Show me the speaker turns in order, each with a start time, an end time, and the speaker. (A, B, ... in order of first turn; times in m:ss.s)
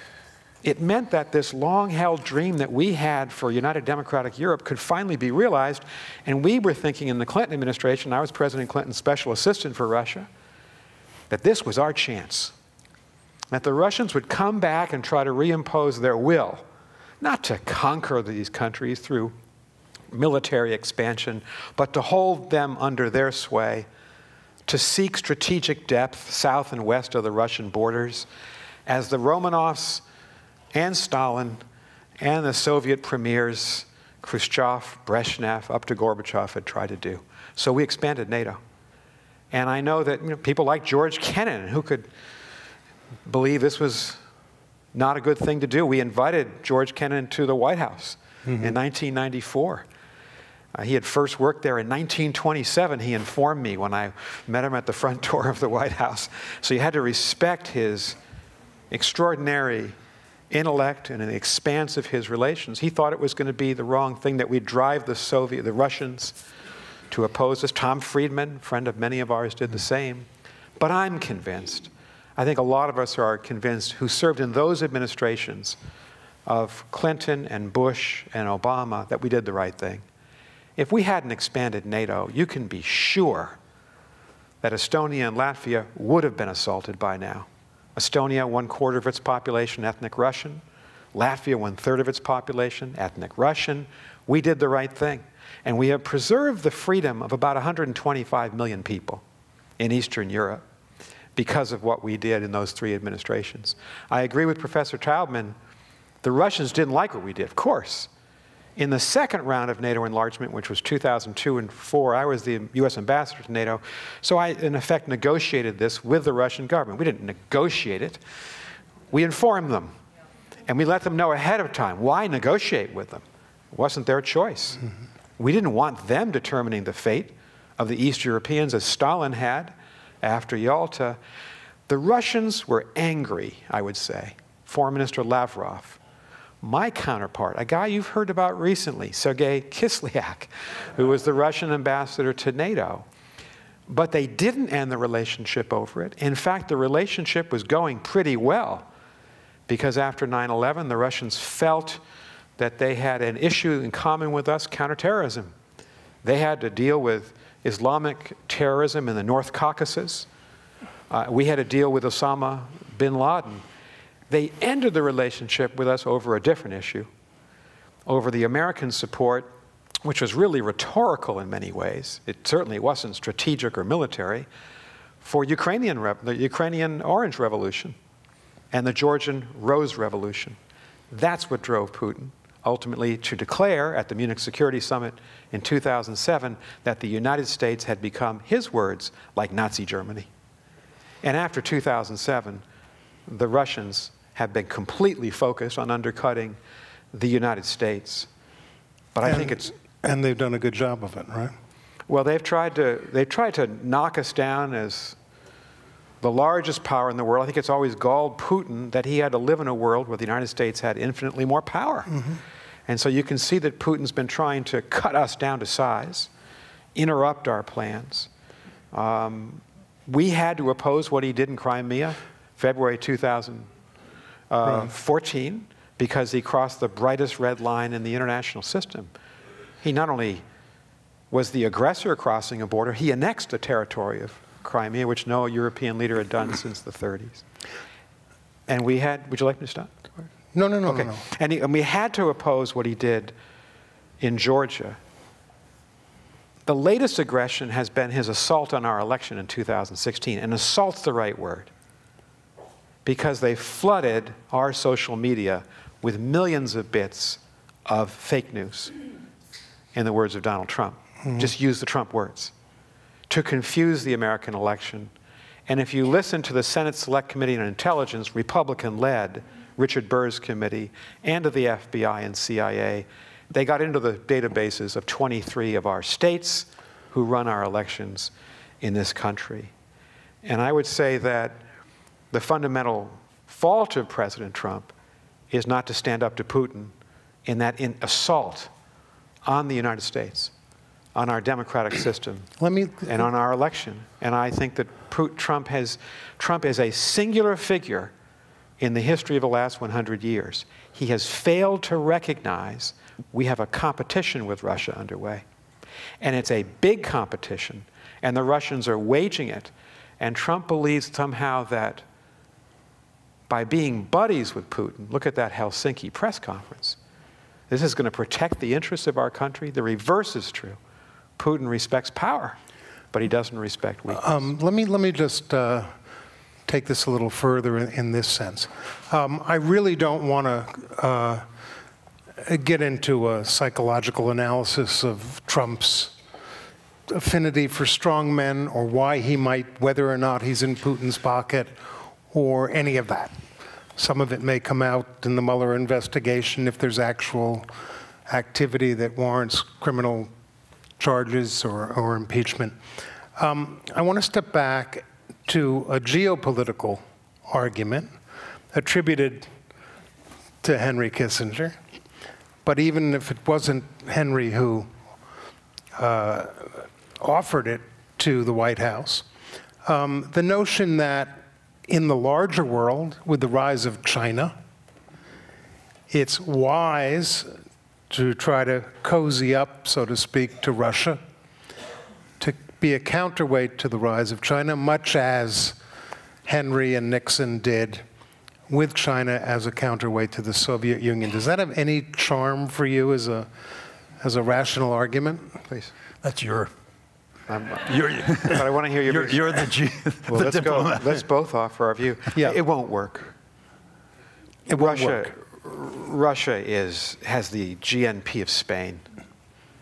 0:00.6-0:10.3 A
0:11.3-0:12.5 A
0:13.5-0:16.6 A
0:17.2-0:19.3 A
0:20.1-0:23.9 A
0:24.7-0:28.3 A
0:28.9-0:30.0 A
0:30.7-0:31.6 A
0:32.2-0:38.6 A
0:39.5-0:42.1 A
0:43.2-0:44.2 A
0:44.9-0:49.8 A
0:48.5-0:48.7 B
0:50.7-0:58.2 A
0:58.9-0:59.9 A
1:00.5-1:06.4 A
1:07.1-1:10.3 A
1:10.8-1:15.8 A
1:16.4-1:20.0 A
1:20.8-1:23.6 A
1:24.6-1:30.6 A
1:31.1-1:39.2 A
1:39.8-1:40.6 A
1:41.4-1:45.6 A
1:46.2-1:48.1 A
1:48.8-1:58.2 A
1:59.1-1:59.9 A
2:00.7-2:04.8 A
2:05.4-2:11.2 A
2:11.9-2:16.0 A
2:16.6-2:23.0 A
2:23.9-2:28.9 A
2:29.7-2:32.0 A
2:32.6-2:35.5 A
2:36.2-2:40.3 A
2:41.1-2:43.6 A
2:44.3-2:47.1 A
2:48.0-2:49.5 A
2:50.0-2:54.5 A
2:55.2-2:58.0 A
2:58.7-3:00.6 A
3:01.1-3:10.3 A
3:11.2-3:12.6 A
3:13.3-3:16.6 A
3:17.1-3:18.3 A
3:19.1-3:19.7 A
3:19.2-3:21.5 B
3:22.1-3:25.2 A
3:26.2-3:32.2 A
3:32.9-3:36.3 A
3:36.9-3:38.3 A
3:38.9-3:43.7 A
3:44.5-3:49.1 A
3:49.8-3:50.4 A
3:51.3-3:57.4 A
3:58.7-3:59.9 A
4:00.5-4:01.2 B
4:00.9-4:03.3 A
4:04.2-4:05.0 A
4:06.6-4:11.7 A
4:13.0-4:18.9 A
4:19.9-4:22.5 A
4:23.3-4:25.1 A
4:25.7-4:39.7 A
4:40.4-4:41.6 A
4:42.3-4:44.9 A
4:45.5-4:46.9 A
4:47.4-4:48.7 A
4:49.4-4:50.5 A
4:51.1-4:52.5 A
4:52.6-4:53.2 B
4:53.0-4:58.1 A
4:58.8-5:05.4 A
5:06.2-5:12.0 A
5:13.5-5:17.0 A
5:17.7-5:20.8 A
5:21.4-5:22.6 A
5:23.1-5:24.4 A
5:24.1-5:25.9 B
5:26.6-5:31.4 B
5:32.4-5:36.1 B
5:37.1-5:43.3 B
5:44.0-5:47.7 B
5:48.3-5:50.3 B
5:51.0-5:52.8 B
5:53.4-5:58.1 B
5:58.7-5:59.5 B
6:00.6-6:01.8 B
6:02.6-6:04.9 B
6:05.9-6:09.2 B
6:09.8-6:14.5 B
6:16.1-6:17.5 B
6:18.1-6:21.2 B
6:22.4-6:25.8 B
6:26.4-6:28.0 B
6:28.7-6:33.5 B
6:34.2-6:35.6 B
6:36.2-6:36.7 C
6:37.5-6:39.7 A
6:37.9-6:41.2 C
6:40.3-6:43.3 A
6:44.7-6:45.3 B
6:44.7-6:49.0 A